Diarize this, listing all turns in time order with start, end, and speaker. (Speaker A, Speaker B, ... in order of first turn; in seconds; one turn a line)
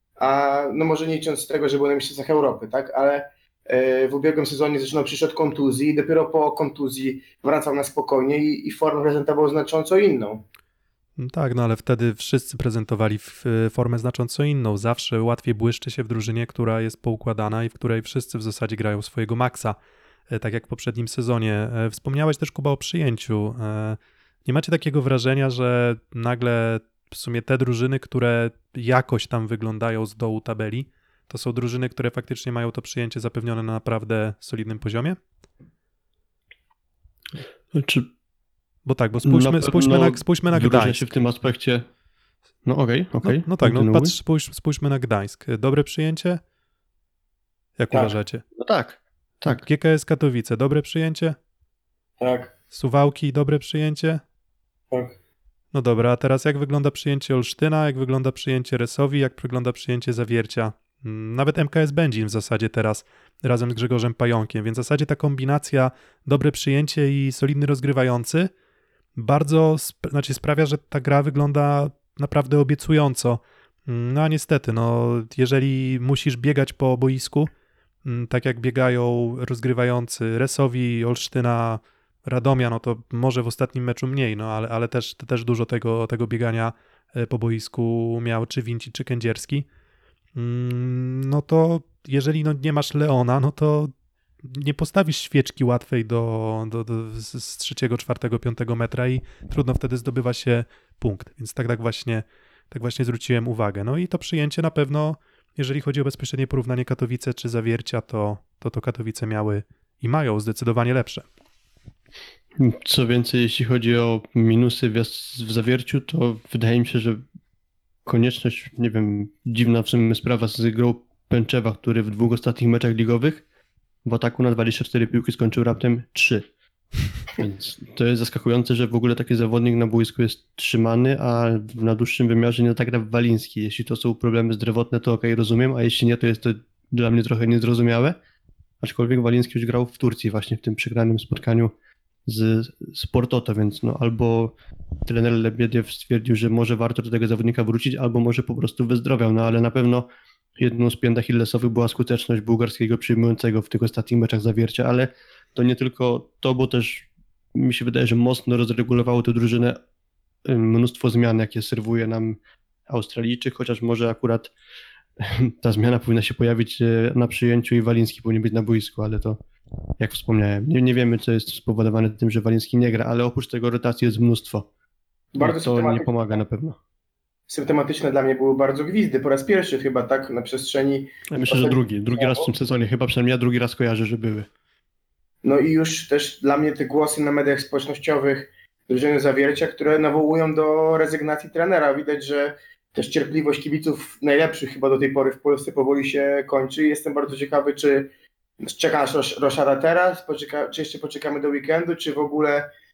Speaker A: 0.2-10.4
Speaker B: 11.2-19.8
Speaker B: 20.3-35.2
Speaker C: 37.7-38.1
Speaker B: 38.9-41.2
Speaker C: 39.2-41.9
Speaker C: 42.6-44.1
Speaker B: 43.2-46.4
Speaker B: 47.8-48.4
Speaker C: 48.5-49.6
Speaker B: 49.5-51.4
Speaker A: 52.2-52.5
Speaker B: 52.7-54.2
Speaker B: 55.7-68.5
Speaker B: 69.2-77.5
Speaker B: 78.0-89.7
Speaker B: 90.3-93.9
Speaker B: 94.4-111.2
Speaker C: 112.5-117.2
Speaker C: 118.0-123.4
Speaker C: 124.0-126.5
Speaker C: 127.3-138.2
Speaker C: 138.8-141.7
Speaker C: 142.2-144.5
Speaker C: 145.1-159.8
Speaker C: 160.4-164.5
Speaker C: 165.2-169.4
Speaker C: 170.0-174.7
Speaker A: 175.3-176.3
Speaker C: 175.4-176.8
Speaker A: 177.5-182.5
Speaker C: 181.3-184.5
Speaker A: 185.4-198.1
Speaker A: 198.6-202.7